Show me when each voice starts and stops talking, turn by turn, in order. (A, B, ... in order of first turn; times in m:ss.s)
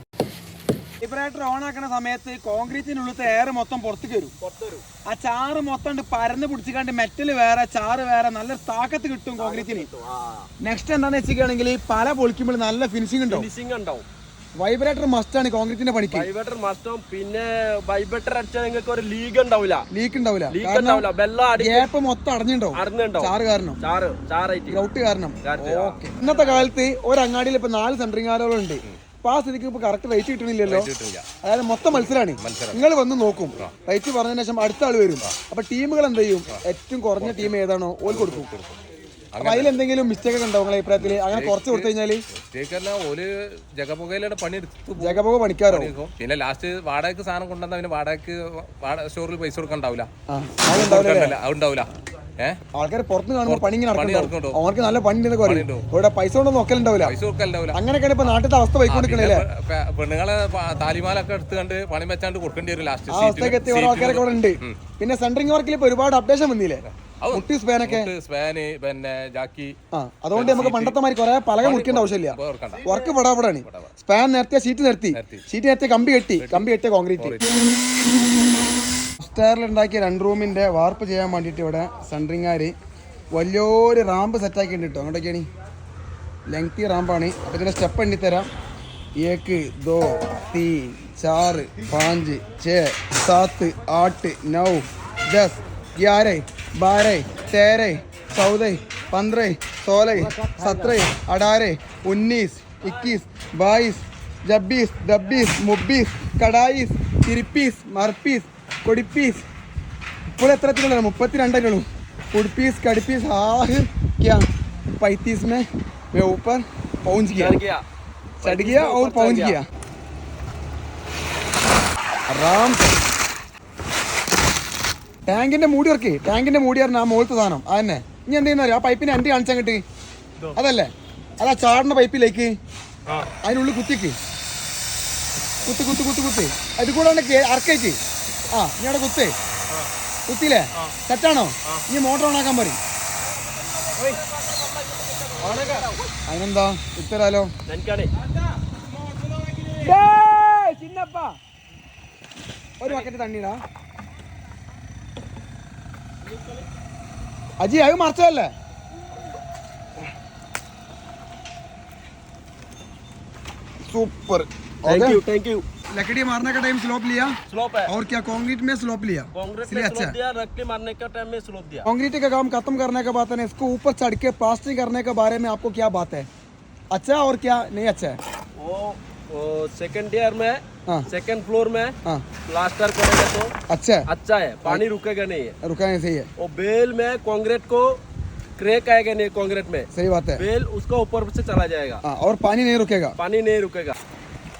0:01.0-0:04.3 A
0:04.4-0:04.8 B
0:05.1-0:09.9 A
0:09.4-0:10.5 B
0:10.6-0:13.5 A
0:13.3-0:14.1 B
0:14.6-0:16.3 A
0:16.1-0:19.8 B
0:19.9-0:21.1 A
0:20.5-0:21.9 B
0:21.6-0:23.8 A
0:22.8-0:24.8 B
0:24.7-0:30.9 A
0:25.4-0:26.7 B
0:30.7-0:31.2 C
0:31.4-0:38.5 A
0:32.4-0:32.8 C
0:37.2-0:37.5 C
0:38.1-0:38.8 C
0:39.4-0:39.7 C
0:39.4-0:42.2 A
0:40.9-0:50.1 C
0:45.0-0:45.9 A
0:50.3-0:51.4 A
0:50.7-0:52.6 C
0:52.7-0:57.2 A
0:53.5-0:54.6 C
0:55.4-0:55.8 C
0:57.0-0:57.8 C
0:57.7-0:59.5 A
0:58.9-1:04.8 C
1:03.1-1:08.1 A
1:07.2-1:09.8 C
1:09.9-1:17.4 A
1:10.4-1:11.0 C
1:11.6-1:12.9 C
1:15.2-1:15.4 C
1:16.4-1:16.7 C
1:17.2-1:17.5 C
1:19.2-1:22.7 A
1:23.3-1:25.5 A
1:26.5-1:28.5 A
1:29.2-1:49.4 A
1:50.3-1:54.4 A
1:55.0-1:57.6 A
1:57.4-1:57.8 B
1:58.4-1:59.6 B
1:58.4-1:59.6 A
2:02.3-2:03.0 A
2:05.3-2:09.8 A
2:10.6-2:12.5 A
2:13.4-2:14.2 A
2:15.6-2:18.0 A
2:18.5-2:19.3 A
2:20.3-2:22.8 A
2:23.5-2:26.1 B
2:25.4-2:27.5 A
2:27.7-2:28.1 B
2:29.4-2:29.9 B
2:29.8-2:31.4 A
2:32.8-2:33.6 A
2:37.6-2:38.5 A
2:43.8-2:45.2 A
2:44.9-2:45.6 B
2:45.9-2:47.4 A
2:47.5-2:47.9 B
2:47.9-2:50.2 A
2:49.4-2:51.9 B
2:51.8-2:56.3 A
2:56.9-2:58.2 A
2:58.6-3:01.9 B
3:02.5-3:03.5 B
3:03.7-3:04.0 A
3:04.1-3:05.6 B
3:05.6-3:06.3 A
3:06.4-3:08.0 B
3:08.6-3:12.0 B
3:09.9-3:10.4 A
3:12.0-3:13.2 A
3:13.2-3:14.0 B